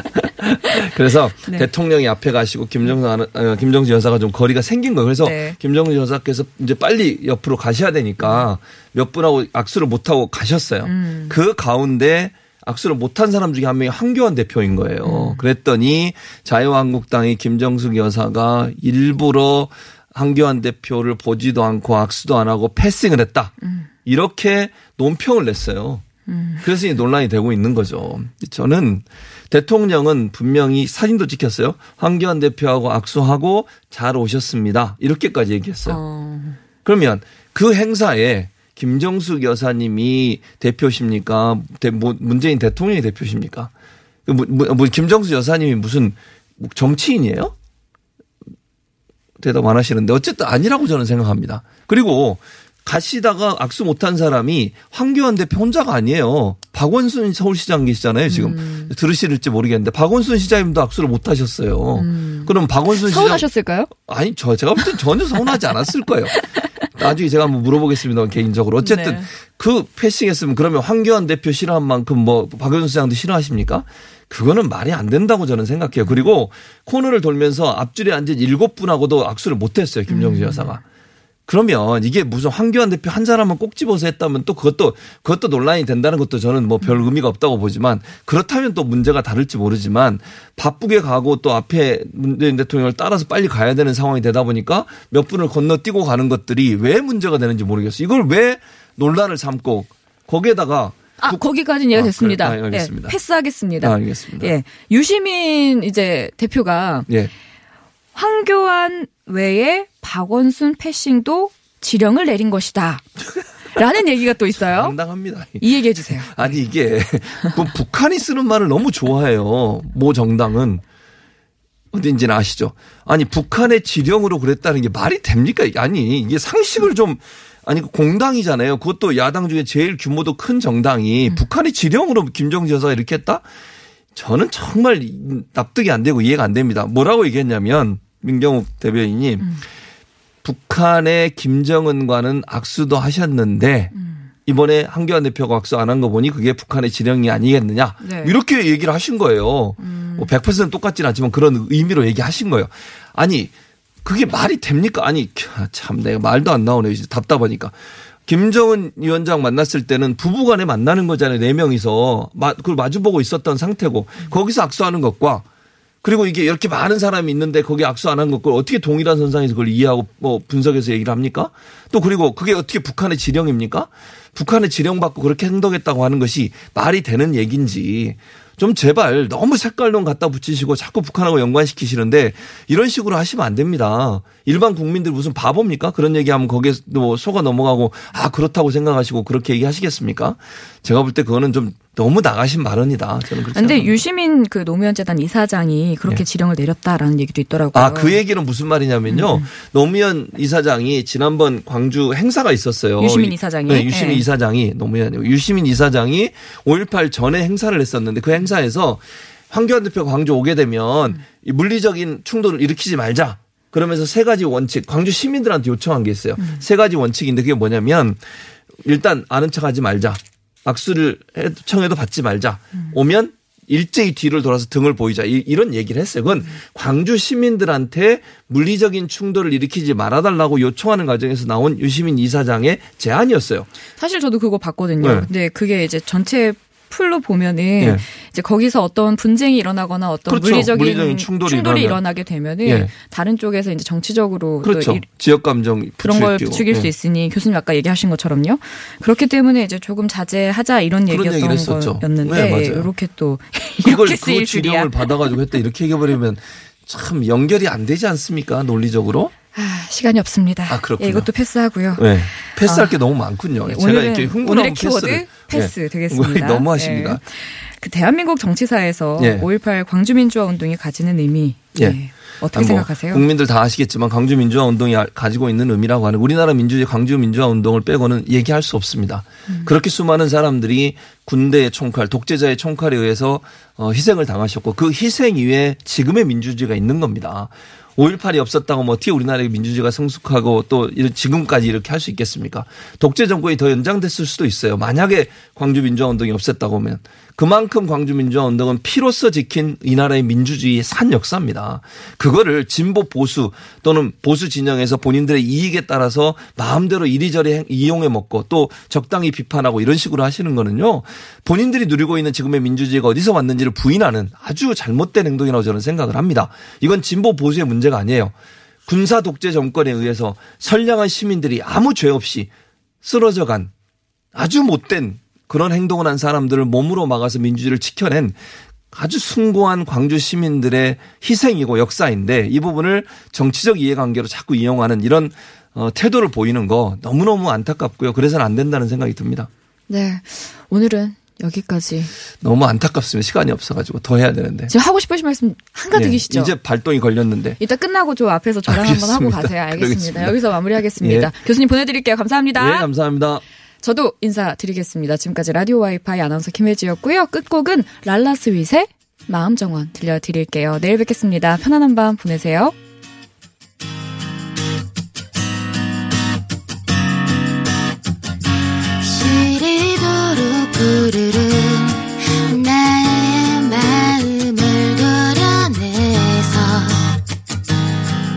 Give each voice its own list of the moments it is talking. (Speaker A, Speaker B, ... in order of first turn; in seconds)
Speaker A: 0.4-26.0, 26.6-36.0, 36.9-43.7, 44.3-47.5, 49.4-80.8, 81.5-101.4, 101.9-103.2, 103.8-104.5, 114.6-120.8, 121.9-133.4, 134.2-139.6, 140.4-143.9, 144.5-153.5, 154.0-165.4, 166.0-194.0, 197.7-218.2, 218.8-233.7, 235.0-235.3, 237.8-238.0, 240.3-242.0, 242.6-242.9, 244.6-246.9, 251.1-252.9, 253.8-259.3, 260.7-261.3, 262.0-267.2, 269.2-269.5, 272.5-318.3, 318.9-322.5, 323.0-323.7, 324.4-328.4, 328.9-339.5, 342.4-344.7, 345.9-347.6, 348.7-350.4, 351.0-351.3, 352.6-353.4
Speaker B: 0.6-0.9, 1.4-1.7, 5.2-5.6, 8.2-8.5, 10.8-11.4, 15.0-15.4, 23.6-23.9, 26.3-26.7, 35.9-36.6, 58.3-58.9, 62.0-63.9, 68.8-69.3, 76.0-76.3, 80.1-80.8, 101.2-107.1, 108.2-113.1, 113.7-115.0, 115.6-116.6, 143.9-144.3, 148.0-148.4, 149.8-150.3, 193.5-198.2, 199.1-199.5, 203.0-204.3, 234.0-245.0, 246.0-255.3, 259.5-263.0, 263.6-273.3, 339.9-342.1, 344.7-346.6, 347.6-352.9, 353.8-362.8
Speaker C: 369.0-377.1